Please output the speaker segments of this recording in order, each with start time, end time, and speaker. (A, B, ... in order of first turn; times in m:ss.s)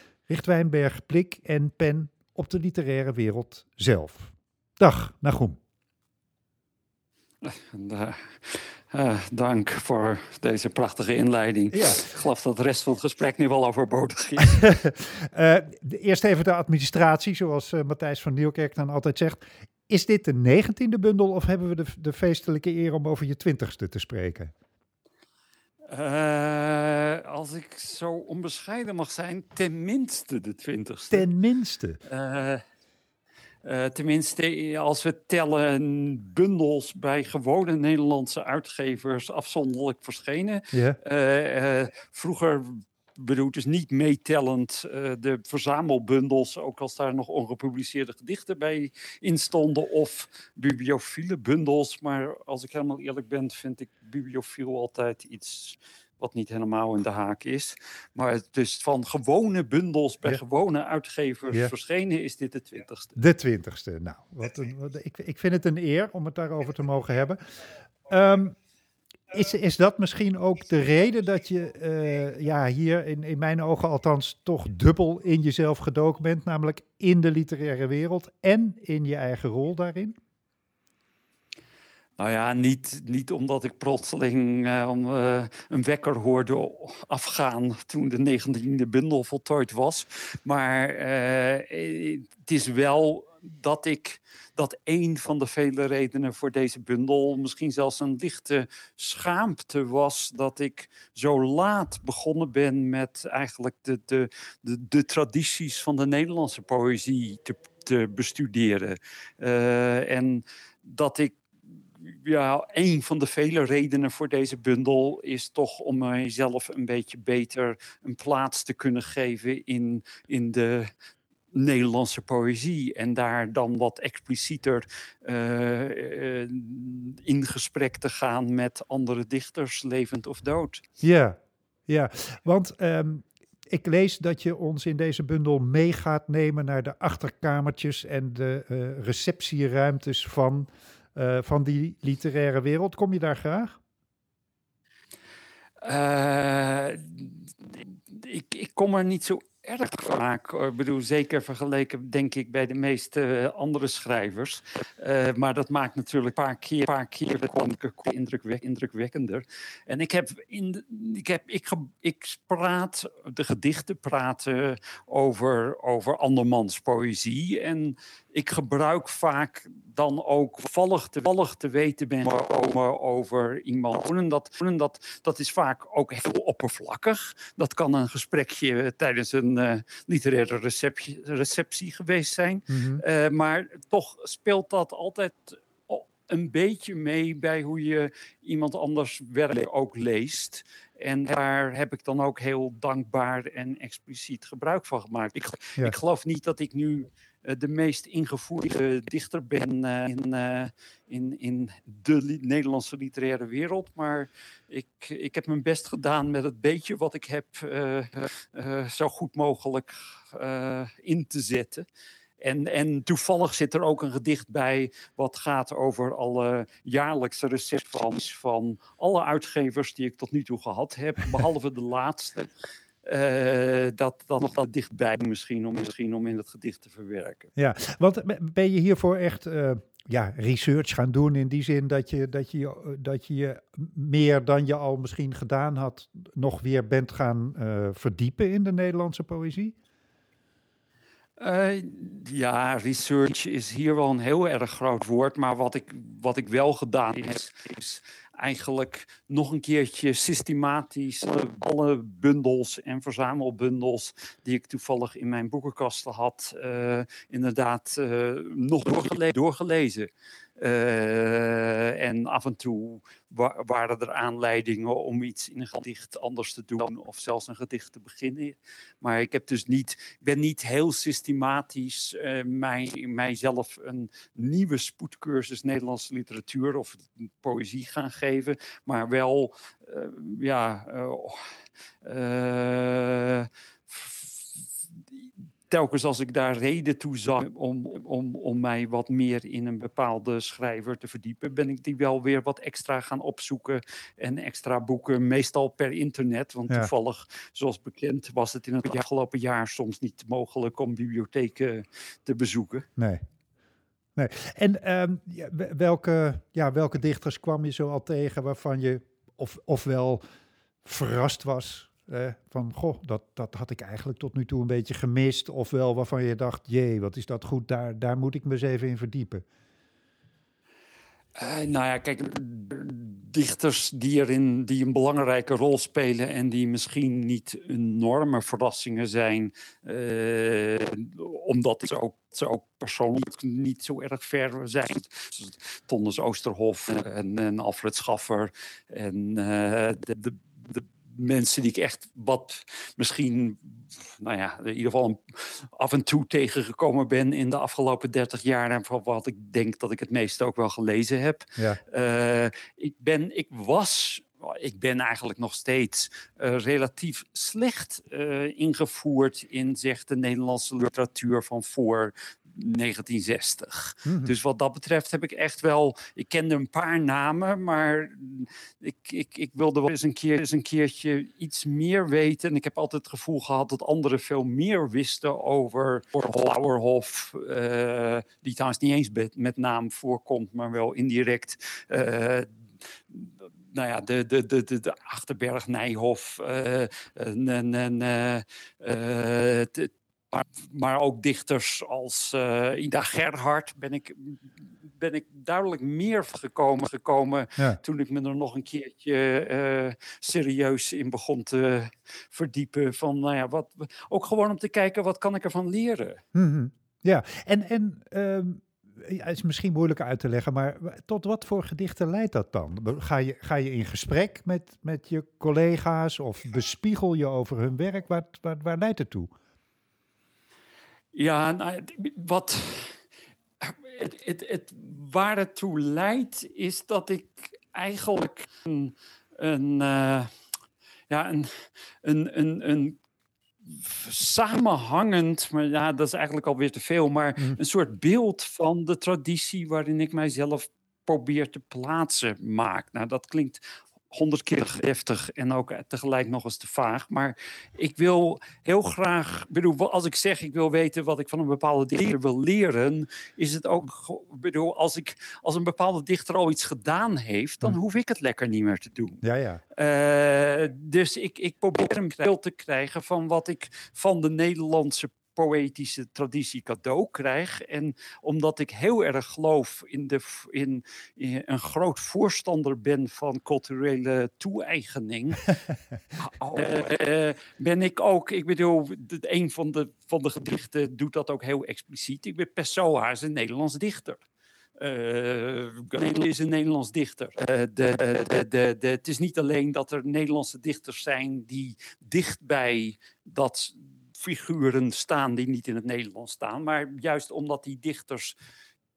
0:00.3-0:05.6 A
0:07.4-0:14.6 B
0:11.7-0:12.0 A
0:14.5-0:24.5 A
0:25.9-0:31.3 B
0:31.1-0:32.0 A
0:32.1-0:32.6 B
0:33.6-1:03.2 B
0:40.7-0:41.0 A
1:03.2-1:07.4 A
1:08.1-1:08.6 A
1:09.3-1:20.2 A
1:22.2-2:00.9 B
2:01.5-2:10.8 B
2:11.0-2:11.4 A
2:11.9-2:23.8 A
2:25.8-3:31.9 B
3:02.7-3:03.0 A
3:32.4-3:42.5 B
3:43.0-3:47.5 B
3:47.6-3:59.8 A
4:01.4-4:41.5 B
4:42.0-4:44.6 B
4:45.7-5:02.9 B
5:03.0-5:03.2 A
5:04.2-5:10.2 A
5:10.8-5:19.4 A
5:21.4-6:22.5 B
6:04.1-6:04.4 A
6:23.1-6:46.2 B
6:46.3-6:59.3 A
7:01.1-7:03.0 B
7:03.6-7:10.3 B
7:11.1-7:13.0 B
7:13.6-7:39.2 B
7:39.2-7:39.6 A
7:39.8-7:55.5 B
7:56.2-8:04.2 B
8:04.8-8:18.4 B